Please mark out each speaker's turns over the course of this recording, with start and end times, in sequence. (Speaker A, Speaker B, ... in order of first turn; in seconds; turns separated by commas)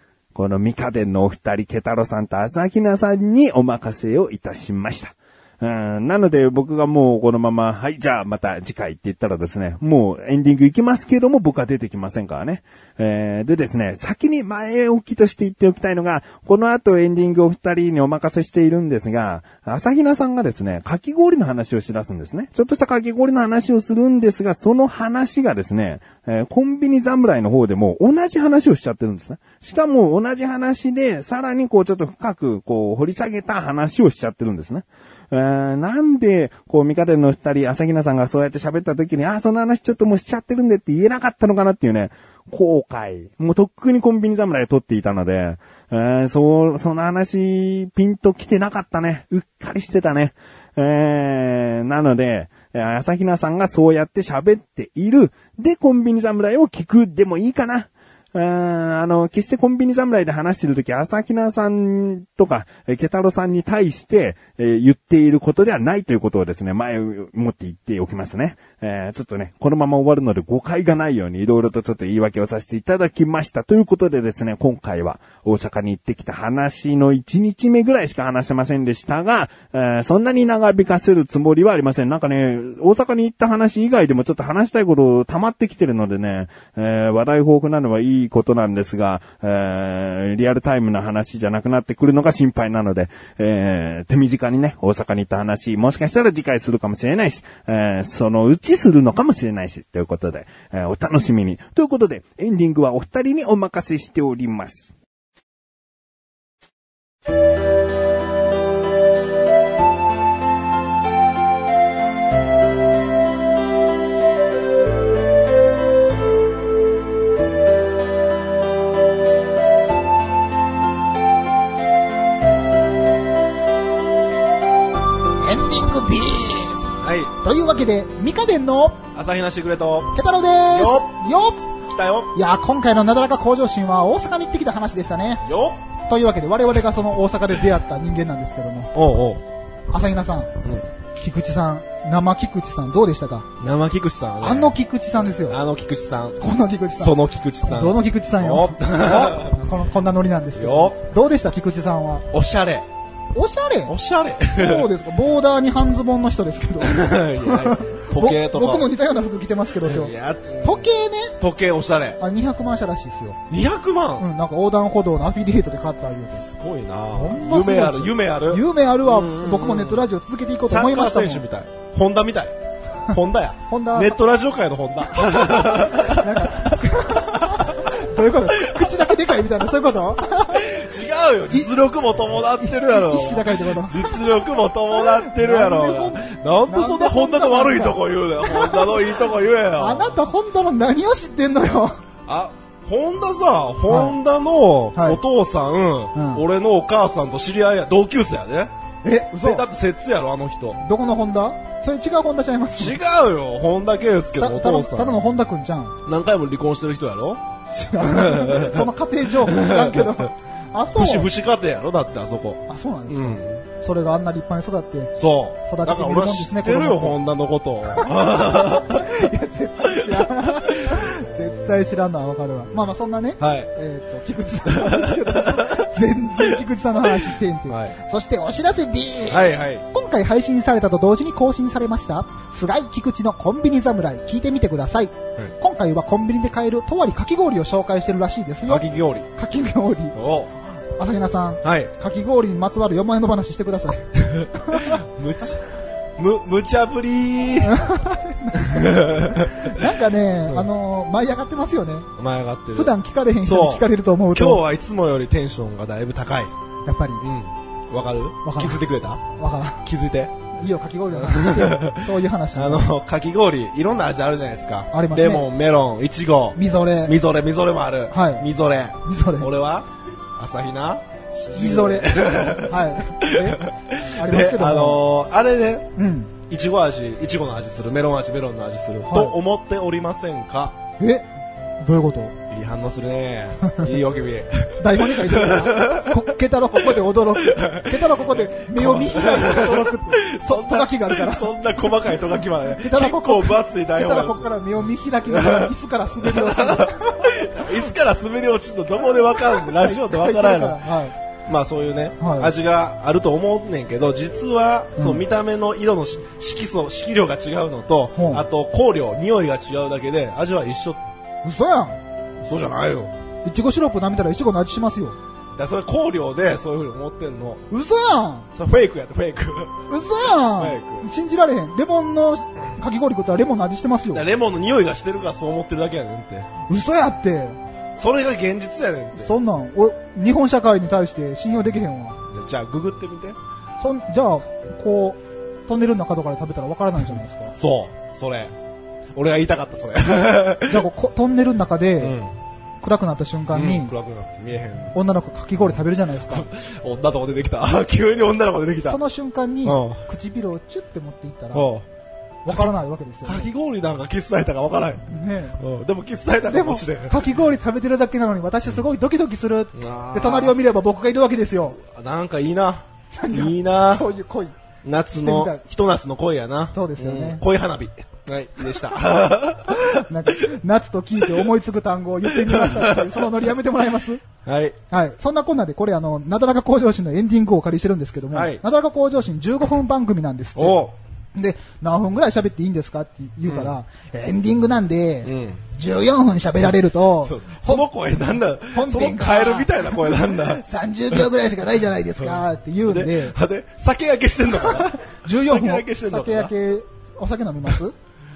Speaker A: 0.3-104.9, Speaker B: 125.4-129.0, Speaker C: 127.0-127.3, Speaker C: 129.1-130.1, Speaker B: 130.1-131.6, Speaker C: 130.7-131.2, Speaker C: 131.9-132.3, Speaker B: 132.3-135.4, Speaker C: 135.4-135.8, Speaker B: 136.1-138.9, Speaker C: 138.9-139.4, Speaker B: 139.9-140.5, Speaker B: 141.1-143.5, Speaker C: 143.6-144.7, Speaker B: 144.4-145.6, Speaker C: 145.5-146.4, Speaker B: 146.4-152.2, Speaker C: 147.0-149.5, Speaker C: 150.6-151.0, Speaker C: 152.3-152.8, Speaker B: 153.3-153.9, Speaker C: 153.9-154.9, Speaker B: 154.5-161.3, Speaker C: 156.8-158.9, Speaker C: 159.8-162.2, Speaker B: 162.2-163.4, Speaker C: 163.5-164.2, Speaker B: 164.2-166.4, Speaker C: 166.4-170.1, Speaker B: 167.1-171.4, Speaker C: 170.7-172.5, Speaker C: 173.0-177.8, Speaker B: 173.7-174.1, Speaker B: 175.1-180.7, Speaker C: 178.5-179.4, Speaker C: 180.4-190.2, Speaker B: 182.4-184.2, Speaker B: 184.9-192.0, Speaker C: 192.3-198.7, Speaker B: 193.9-194.2, Speaker B: 194.9-195.2, Speaker B: 196.1-196.4, Speaker B: 199.0-199.7, Speaker C: 199.4-200.8, Speaker B: 200.8-203.0, Speaker C: 202.8-205.2, Speaker B: 204.3-205.9, Speaker C: 206.0-207.4, Speaker B: 207.7-211.3, Speaker C: 208.0-210.3, Speaker C: 210.9-213.6, Speaker B: 212.7-215.1, Speaker C: 215.2-219.3, Speaker B: 215.6-217.2, Speaker B: 217.9-240.2, Speaker C: 219.9-221.9, Speaker C: 223.4-223.7, Speaker C: 224.7-226.6, Speaker C: 227.7-227.9, Speaker C: 229.3-229.8, Speaker C: 238.6-239.3, Speaker C: 240.1-240.5, Speaker B: 240.7-245.0, Speaker C: 241.6-241.9, Speaker C: 244.2-245.6, Speaker C: 246.2-247.9, Speaker B: 247.6-252.1, Speaker C: 248.5-249.9, Speaker C: 252.2-256.5, Speaker B: 252.7-254.6, Speaker B: 256.8-257.2, Speaker C: 257.2-259.2, Speaker B: 258.4-259.9, Speaker C: 259.8-260.3, Speaker B: 260.6-262.9, Speaker C: 261.1-262.0, Speaker C: 262.5-275.9, Speaker B: 264.9-265.5, Speaker B: 266.5-267.2, Speaker B: 268.1-268.5, Speaker B: 269.0-269.5, Speaker B: 271.5-273.6, Speaker B: 274.2-275.0, Speaker B: 275.9-276.3, Speaker C: 276.5-280.8, Speaker B: 279.1-279.4, Speaker B: 281.0-281.3, Speaker B: 281.8-282.4, Speaker C: 282.5-286.2, Speaker B: 284.8-297.7, Speaker C: 286.8-294.5, Speaker C: 295.3-300.8, Speaker B: 299.0-301.1, Speaker C: 301.4-311.0, Speaker B: 302.2-302.5, Speaker B: 304.9-305.2, Speaker B: 308.1-308.4, Speaker B: 311.4-312.0, Speaker C: 312.4-313.1, Speaker B: 313.4-315.2, Speaker C: 315.6-317.6, Speaker B: 317.7-318.5, Speaker C: 318.5-321.1, Speaker B: 319.9-324.3, Speaker C: 324.1-326.5, Speaker B: 326.6-327.6, Speaker C: 327.9-329.3, Speaker B: 329.1-332.2, Speaker C: 332.3-333.4, Speaker B: 333.8-337.5, Speaker C: 337.5-338.5, Speaker C: 339.1-340.9, Speaker B: 340.6-342.2, Speaker C: 342.0-342.3, Speaker B: 342.8-343.9, Speaker C: 343.5-344.9, Speaker B: 344.9-346.4, Speaker C: 346.2-349.0, Speaker B: 348.8-351.7, Speaker C: 349.6-350.0, Speaker C: 351.5-351.9, Speaker B: 352.4-353.5, Speaker C: 353.2-357.2, Speaker B: 355.1-355.6, Speaker B: 356.4-361.8, Speaker C: 359.7-360.6, Speaker C: 361.8-364.1, Speaker B: 363.1-364.5, Speaker C: 364.8-370.3, Speaker B: 365.1-365.6, Speaker B: 366.7-367.4, Speaker B: 369.7-374.2, Speaker C: 372.3-373.3, Speaker C: 374.4-374.8, Speaker B: 374.9-380.8, Speaker C: 378.3-378.6, Speaker C: 380.6-380.9, Speaker B: 381.3-393.4, Speaker C: 383.5-383.7, Speaker C: 385.2-385.6, Speaker C: 387.2-391.3, Speaker C: 391.9-396.5, Speaker B: 394.6-397.9